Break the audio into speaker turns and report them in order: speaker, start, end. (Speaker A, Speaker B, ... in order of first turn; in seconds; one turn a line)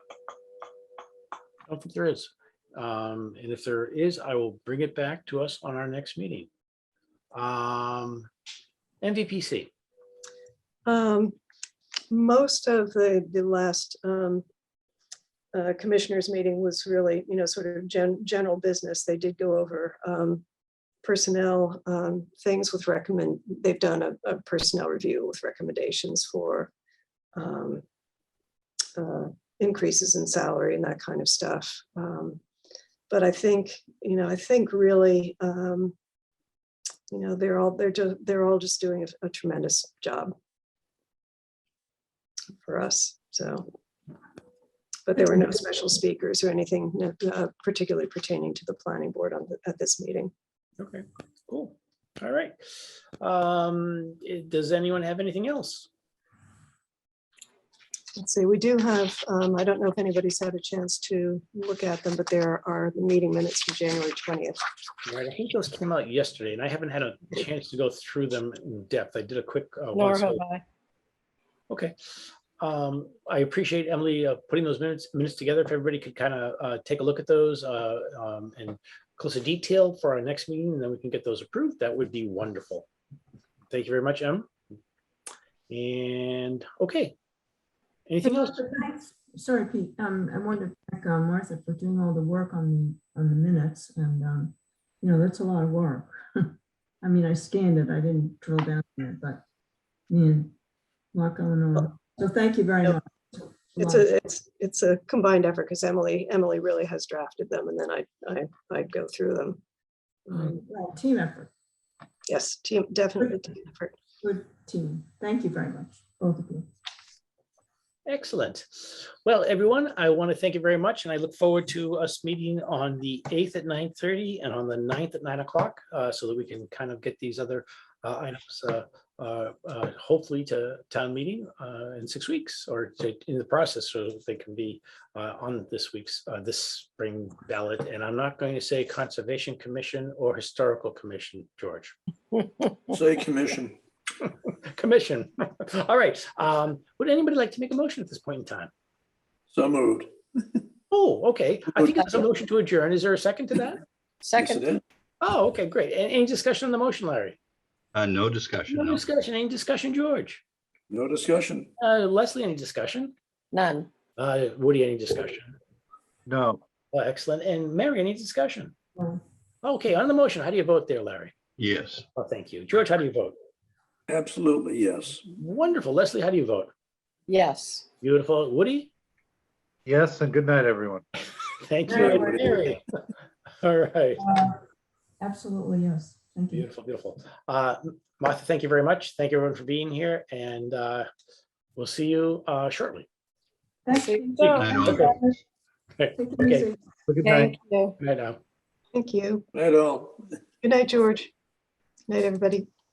Speaker A: 1.7-6.5
Speaker A: 7.3-8.3
Speaker A: 9.0-9.7
Speaker B: 10.8-11.3
Speaker B: 12.1-14.4
Speaker B: 15.5-20.4
Speaker B: 21.0-26.7
Speaker B: 27.4-27.8
Speaker B: 28.9-32.4
Speaker B: 33.1-35.9
Speaker B: 37.1-40.3
Speaker B: 42.6-43.7
Speaker B: 45.0-50.3
Speaker A: 50.8-52.5
Speaker A: 53.2-55.9
Speaker B: 58.1-64.6
Speaker A: 65.0-70.4
Speaker C: 69.9-70.6
Speaker A: 71.7-71.9
Speaker A: 72.6-82.9
Speaker A: 83.7-84.5
Speaker A: 85.7-87.1
Speaker A: 88.1-88.7
Speaker D: 88.3-99.4
Speaker D: 100.1-100.5
Speaker D: 101.1-104.1
Speaker B: 103.8-109.6
Speaker B: 110.2-110.6
Speaker D: 110.3-111.5
Speaker B: 112.3-113.9
Speaker D: 114.2-116.7
Speaker A: 118.1-141.9
Speaker E: 142.9-143.8
Speaker A: 144.2-148.7
Speaker E: 149.5-150.1
Speaker A: 150.9-153.8
Speaker E: 151.8-152.0
Speaker C: 154.2-154.7
Speaker E: 154.3-154.8
Speaker A: 155.2-157.4
Speaker F: 157.9-159.0
Speaker A: 158.7-160.4
Speaker E: 160.9-161.7
Speaker A: 161.8-163.1
Speaker C: 163.5-163.9
Speaker A: 164.2-165.5
Speaker G: 166.3-166.6
Speaker A: 166.9-168.7
Speaker A: 169.6-171.4
Speaker F: 171.6-172.0
Speaker A: 172.2-173.3
Speaker E: 174.1-175.2
Speaker A: 175.3-176.7
Speaker C: 177.3-177.8
Speaker A: 178.0-178.9
Speaker G: 179.9-181.0
Speaker A: 181.6-182.8
Speaker D: 181.9-182.7
Speaker E: 181.9-182.6
Speaker A: 183.6-184.2
Speaker D: 184.2-184.6
Speaker D: 185.2-186.7
Speaker A: 186.5-191.1
Speaker A: 191.8-193.1
Speaker D: 193.8-195.4
Speaker C: 193.9-195.1
Speaker F: 194.6-195.0
Speaker A: 196.0-196.7
Speaker D: 196.2-196.8
Speaker G: 197.1-197.5
Speaker C: 197.2-197.9
Speaker A: 198.0-198.4
Speaker B: 198.9-199.4
Speaker E: 199.5-200.2
Speaker B: 200.6-201.3
Speaker B: 202.1-202.7